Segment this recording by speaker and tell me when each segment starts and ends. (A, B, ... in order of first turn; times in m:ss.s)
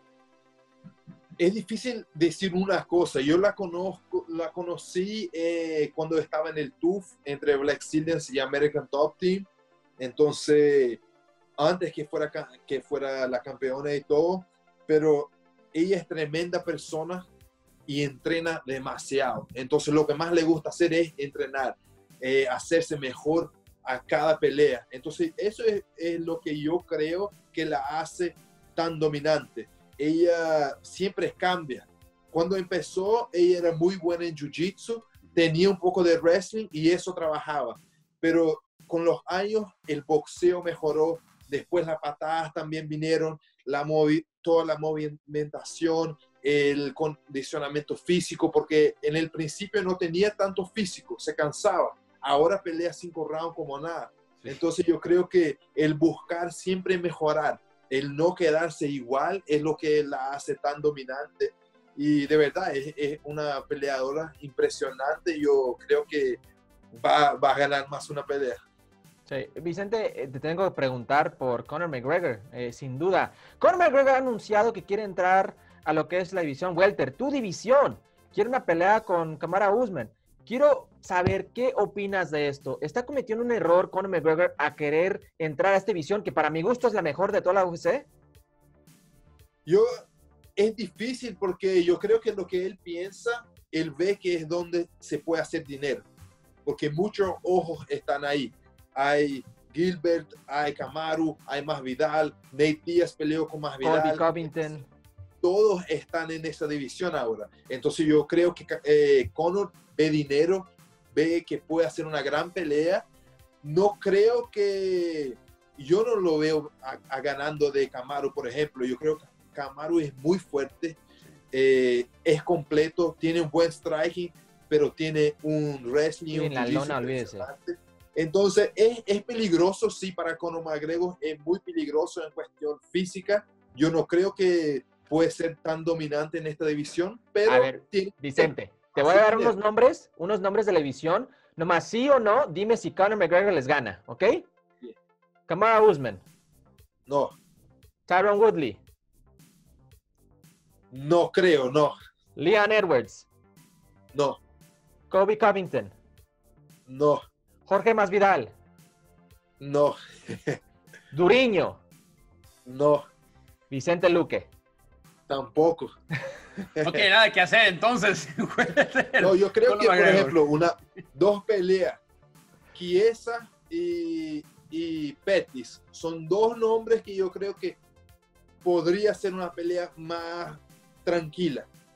0:01.4-0:09.5 A
0:10.0-0:11.0 A
0:11.6-0:17.3 A
0:17.9-1:06.4 A
1:06.9-1:08.6 A
1:09.3-1:28.1 B
1:29.7-1:29.9 A
1:30.6-1:36.1 A
1:36.6-1:44.7 A
1:43.8-1:44.9 B
1:45.4-1:53.0 A
1:53.6-2:01.0 A
2:01.5-2:19.6 A
2:06.3-2:07.5 B
2:17.5-2:24.5 B
2:25.5-2:26.2 B
2:27.1-2:27.4 A
2:28.1-2:28.8 B
2:30.9-2:32.0 A
2:32.4-2:33.3 B
2:34.1-2:34.4 A
2:35.1-2:35.9 B
2:36.9-2:37.2 A
2:37.7-2:38.5 B
2:39.6-2:40.6 A
2:41.1-2:41.8 B
2:42.6-2:43.0 A
2:43.7-2:44.5 B
2:45.3-2:45.9 A
2:46.8-2:50.4 C
2:49.2-2:52.0 A
2:52.7-2:57.8 A
2:58.6-3:01.7 A